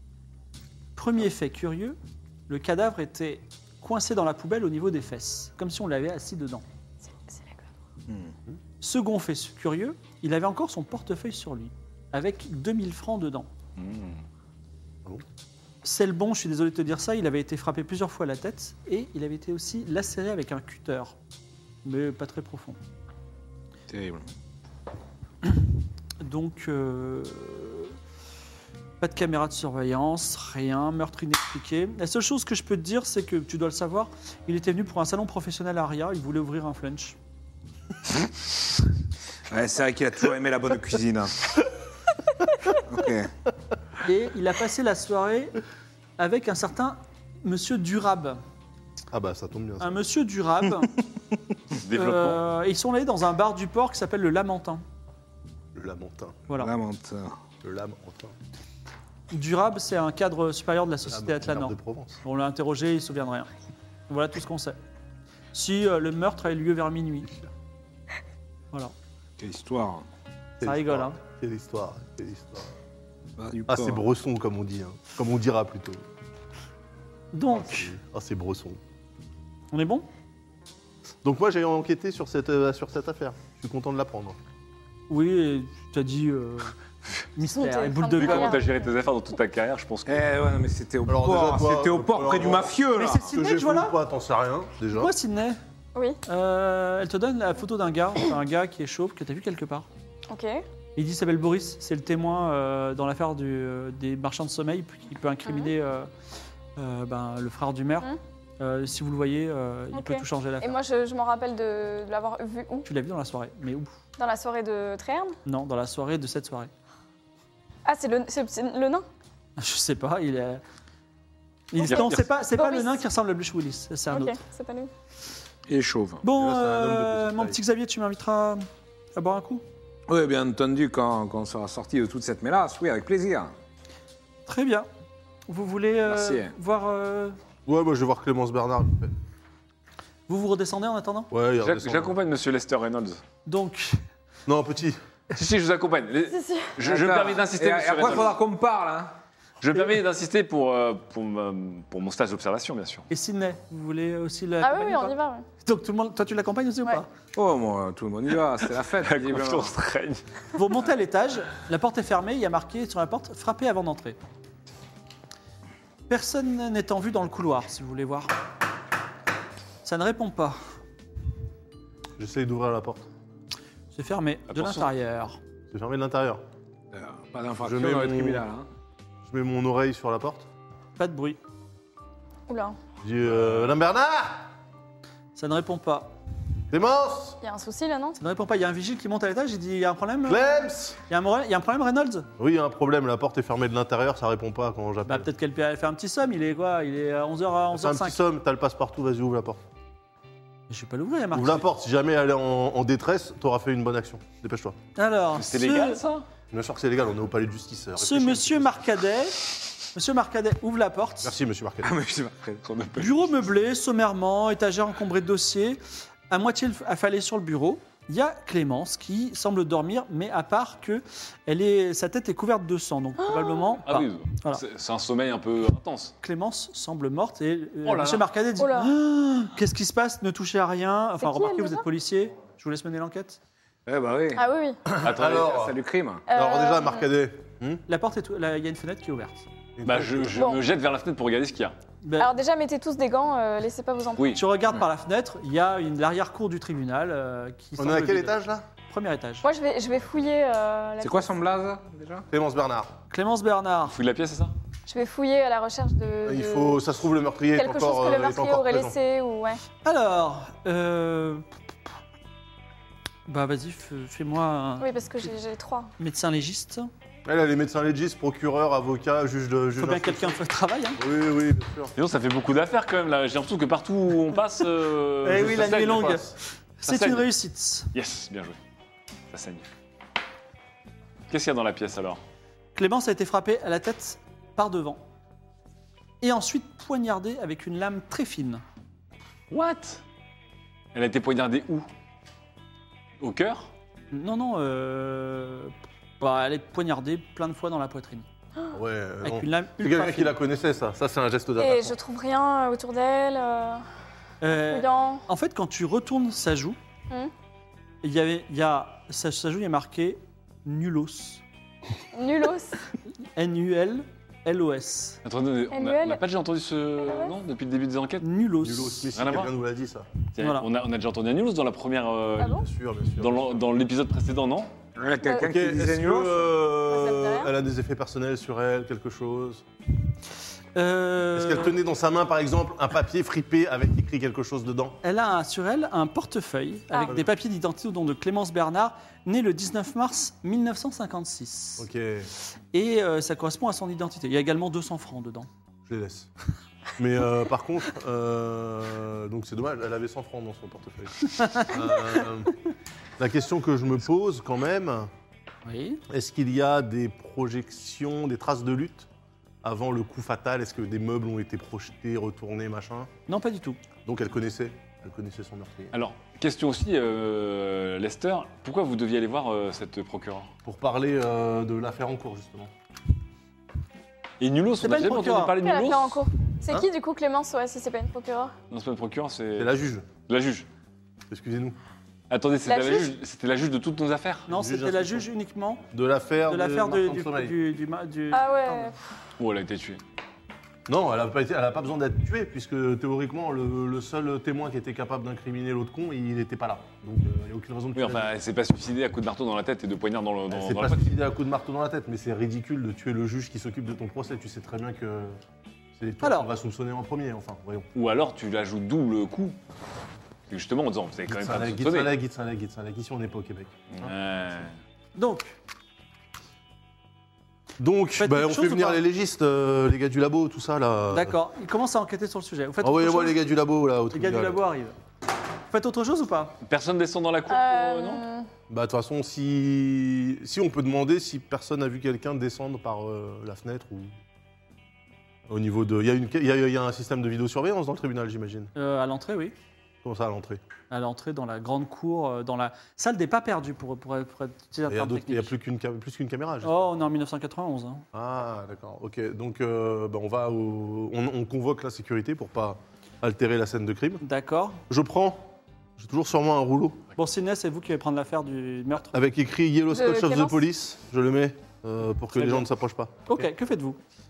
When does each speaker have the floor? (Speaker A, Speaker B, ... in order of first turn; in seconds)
Speaker A: 0.9-2.0, 2.5-6.6, 8.8-13.5, 15.8-21.1, 21.8-22.8, 26.2-27.9, 29.0-37.1, 44.0-45.5, 46.2-48.4, 49.8-50.9, 51.9-54.8, 59.3-63.5, 64.1-64.8, 65.5-67.3, 70.6-71.2, 77.3-77.9, 79.7-80.0, 85.1-86.7, 87.3-88.6, 92.9-94.0, 94.9-95.6, 96.2-99.9, 101.0-106.1, 106.8-110.8, 112.8-113.9, 115.5-116.7, 119.6-120.6, 121.7-124.3, 126.2-129.6, 134.5-134.9, 135.5-137.4, 140.3-141.3, 143.4-144.0, 153.1-157.1, 160.5-164.2, 166.1-168.3, 169.8-170.6, 173.9-175.4, 181.0-181.4, 185.3-186.1, 188.2-190.5, 191.1-192.3, 195.1-198.2, 200.7-201.7, 204.9-206.0, 208.0-211.3, 213.0-224.6, 226.2-233.4, 237.9-239.4, 242.0-242.3, 244.3-249.4, 253.1-253.9, 259.8-261.4, 263.3-265.3, 266.0-266.9, 269.8-271.0, 275.2-277.9, 282.8-285.0, 286.2-288.6, 294.1-298.3, 299.2-300.4, 304.4-306.8, 308.0-311.4, 313.4-315.2, 318.2-319.1, 320.4-320.6, 330.7-331.8, 335.0-341.9, 342.7-345.5, 351.4-351.7, 355.6-356.0, 363.3-363.8, 374.8-375.5, 384.5-385.8, 386.5-388.9, 406.2-406.5, 415.1-415.6, 418.2-419.0, 421.1-423.4, 424.1-424.9, 425.7-426.6, 438.8-439.5, 440.9-445.5, 446.6-448.0, 454.2-454.8, 457.2-459.2, 463.3-464.0
Speaker B: 7.3-7.6, 87.4-88.8, 100.3-100.6, 105.4-105.7, 109.9-112.9, 114.2-115.4, 117.8-119.0, 121.8-123.0, 124.1-124.9, 146.3-146.7, 154.6-155.4, 182.5-182.8, 187.4-188.2, 223.2-223.7, 228.6-228.9, 231.2-231.8, 234.3-234.8, 236.3-237.1, 240.3-240.6, 242.2-244.4, 249.4-251.3, 254.9-256.8, 257.5-259.6, 264.8-265.9, 301.6-303.8, 304.6-305.2, 312.1-312.8, 315.7-316.2, 317.0-317.3, 325.2-325.6, 326.9-327.5, 336.9-337.1, 375.6-378.5, 382.6-383.1, 388.3-389.0, 427.5-428.5, 459.9-460.6
Speaker C: 8.1-8.3, 13.8-14.1, 23.9-24.2, 39.5-41.3, 42.7-43.3, 56.6-57.4, 69.4-70.0, 73.4-74.0, 90.1-93.2, 125.7-126.2, 130.1-133.5, 136.1-136.5, 146.8-149.1, 157.3-159.7, 176.9-178.7, 211.8-213.1, 233.8-234.5, 235.0-236.2, 251.0-252.2, 325.0-326.5
Speaker D: 49.1-50.0, 55.7-56.5, 57.6-58.3, 61.0-62.2, 70.6-72.7, 73.7-76.0, 77.5-78.8, 81.2-84.4, 91.0-95.1, 126.3-127.6, 137.7-139.1, 141.3-142.2, 144.4-145.0, 172.2-173.1, 175.7-176.4, 177.6-178.5, 179.2-180.5, 183.0-184.5, 186.7-187.4, 190.2-191.0, 192.4-195.3, 197.7-199.6, 201.3-204.8, 206.5-208.8, 211.2-211.9, 234.9-235.8, 236.3-237.8, 239.8-240.5, 247.8-248.6, 252.3-252.9, 256.2-258.9, 267.2-270.4, 271.0-271.9, 275.2-276.3, 298.7-301.9, 318.6-320.1, 322.5-323.6, 325.3-329.6, 331.3-335.0, 341.8-342.3, 345.9-346.3, 347.0-352.5, 353.2-355.1, 356.1-359.1, 359.6-363.1, 364.0-365.9, 370.6-372.7, 379.6-380.1, 381.3-381.8, 384.5-385.3, 385.9-387.6, 390.9-398.3, 400.5-405.4, 405.9-407.9, 411.3-414.1, 417.8-421.4, 422.8-424.6, 428.7-434.1, 435.5-438.7, 440.0-440.6, 444.9-446.9, 448.1-454.2, 454.9-457.0, 459.1-463.1
Speaker E: 51.7-52.4, 88.1-90.4, 121.8-122.2, 141.6-143.2, 145.3-148.4, 149.6-153.1, 158.9-160.2, 174.5-174.9, 205.3-206.2, 223.8-226.1, 227.8-228.3, 235.0-235.4, 239.8-241.7, 253.9-254.5, 271.9-276.2, 276.8-277.3, 277.9-278.6, 279.3-279.6, 281.3-282.2, 289.5-290.0, 290.9-291.9, 293.2-293.7, 315.2-318.3, 319.1-319.5, 320.3-322.6, 323.2-324.7, 365.9-370.5, 374.4-376.2, 378.7-379.7, 380.3-380.7, 382.3-384.5, 389.4-390.0, 397.9-401.1, 407.9-409.6, 410.5-412.1, 413.9-414.7, 426.6-428.2